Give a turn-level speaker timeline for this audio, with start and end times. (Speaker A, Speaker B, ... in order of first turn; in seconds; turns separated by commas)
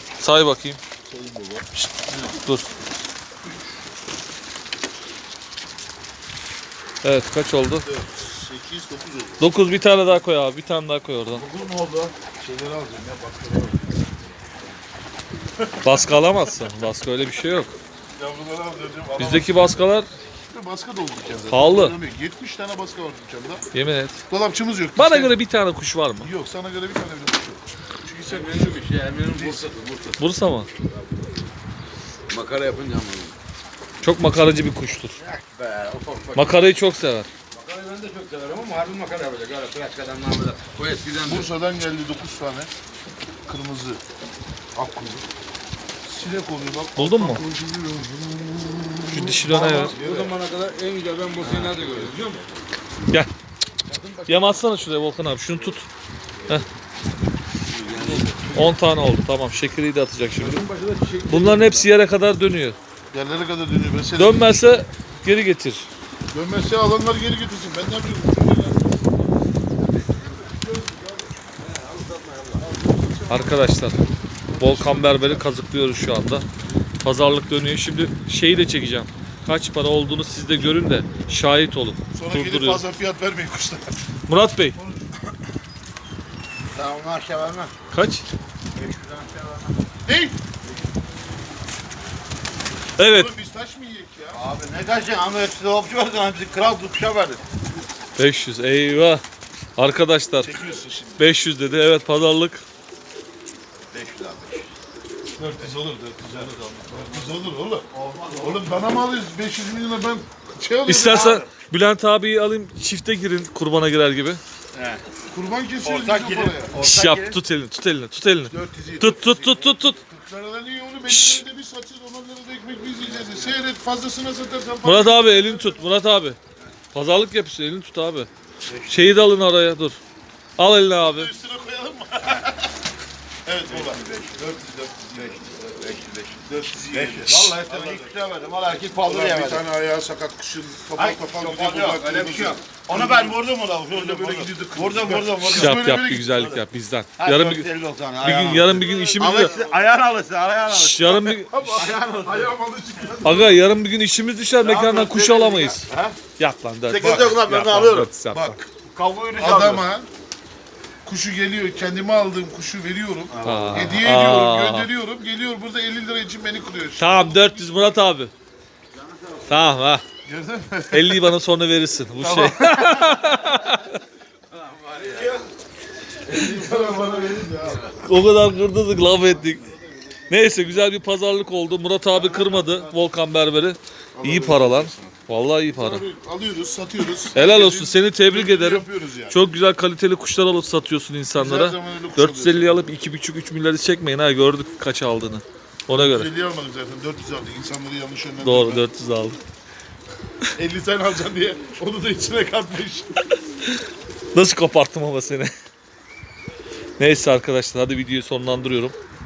Speaker A: 0.2-0.8, Speaker B: 1.1-2.0, Speaker C: 2.1-2.3, Speaker A: 2.4-2.7, Speaker B: 3.4-3.7, Speaker A: 7.0-7.9, Speaker B: 7.8-9.5, Speaker A: 9.4-11.4, Speaker B: 11.3-14.6, Speaker B: 15.6-16.5, Speaker A: 15.8-17.8, Speaker B: 18.2-19.9, Speaker A: 19.2-20.1, Speaker B: 20.5-23.6, Speaker A: 21.5-22.0, Speaker A: 23.7-24.2, Speaker B: 24.3-25.3, Speaker A: 24.9-26.3, Speaker B: 26.2-29.6, Speaker C: 28.2-30.2, Speaker A: 30.2-30.7, Speaker C: 30.8-31.5, Speaker C: 32.3-33.4, Speaker A: 34.0-35.2, Speaker C: 35.1-36.7, Speaker A: 36.3-37.3, Speaker C: 37.5-41.5, Speaker B: 41.2-42.7, Speaker B: 43.5-44.0, Speaker B: 44.7-45.3, Speaker B: 46.0-50.3, Speaker A: 47.0-47.4, Speaker A: 49.1-50.0, Speaker C: 49.3-52.6, Speaker C: 53.9-54.6, Speaker A: 54.3-55.9, Speaker C: 57.6-58.8, Speaker A: 58.0-60.6, Speaker C: 60.4-61.9, Speaker A: 61.2-62.8, Speaker B: 63.1-64.8, Speaker A: 64.2-65.9, Speaker B: 66.3-69.2, Speaker C: 69.8-70.5, Speaker B: 70.6-71.4, Speaker C: 71.6-72.7, Speaker B: 72.6-73.8, Speaker A: 73.3-74.0, Speaker B: 74.5-75.5, Speaker A: 74.6-76.5, Speaker A: 77.0-82.8, Speaker B: 82.1-84.0, Speaker A: 84.3-84.8, Speaker B: 84.8-85.1, Speaker C: 86.7-87.7, Speaker A: 87.9-88.3, Speaker C: 88.7-89.9, Speaker B: 90.1-90.4, Speaker A: 93.0-93.3, Speaker B: 93.1-94.4, Speaker C: 94.3-97.4, Speaker A: 98.2-99.2, Speaker A: 99.8-100.5, Speaker B: 100.4-101.3, Speaker A: 101.2-102.6, Speaker C: 103.9-104.7, Speaker B: 105.3-111.5, Speaker C: 106.2-108.9, Speaker A: 110.8-114.4, Speaker C: 114.7-115.0, Speaker B: 115.3-116.8, Speaker C: 115.8-117.4, Speaker A: 116.8-120.0, Speaker B: 118.5-125.9, Speaker A: 121.1-121.4, Speaker C: 123.0-123.6, Speaker A: 124.8-126.4, Speaker A: 126.9-128.3, Speaker C: 128.7-129.2, Speaker A: 128.9-130.0, Speaker A: 130.6-131.3, Speaker B: 131.0-132.7, Speaker B: 133.4-135.5, Speaker C: 133.6-134.6, Speaker C: 135.1-139.7, Speaker B: 136.4-138.2, Speaker B: 139.0-146.6, Speaker C: 140.9-145.8, Speaker A: 145.5-149.5, Speaker C: 147.2-152.5, Speaker B: 148.6-149.8, Speaker A: 150.7-151.9, Speaker B: 151.5-153.6, Speaker A: 153.2-158.6, Speaker C: 154.6-156.2, Speaker C: 156.9-158.1, Speaker B: 157.0-157.3, Speaker B: 158.3-158.7, Speaker C: 158.8-159.9, Speaker B: 159.4-160.1, Speaker B: 161.0-167.8, Speaker C: 163.3-164.0, Speaker A: 163.4-164.9, Speaker A: 167.0-168.3, Speaker C: 168.9-169.7, Speaker A: 169.5-170.0, Speaker B: 170.2-171.4, Speaker A: 170.9-173.9, Speaker B: 172.2-173.3, Speaker C: 174.5-175.4, Speaker B: 175.1-175.4, Speaker B: 176.2-177.8, Speaker C: 176.2-178.0, Speaker A: 178.0-179.7, Speaker A: 180.3-186.0, Speaker C: 182.1-183.0, Speaker B: 184.2-185.2, Speaker B: 185.7-189.4, Speaker A: 187.3-196.3, Speaker B: 191.3-192.9, Speaker B: 195.9-198.8, Speaker A: 198.4-199.4, Speaker B: 200.6-203.2, Speaker A: 204.3-205.5, Speaker A: 207.0-208.9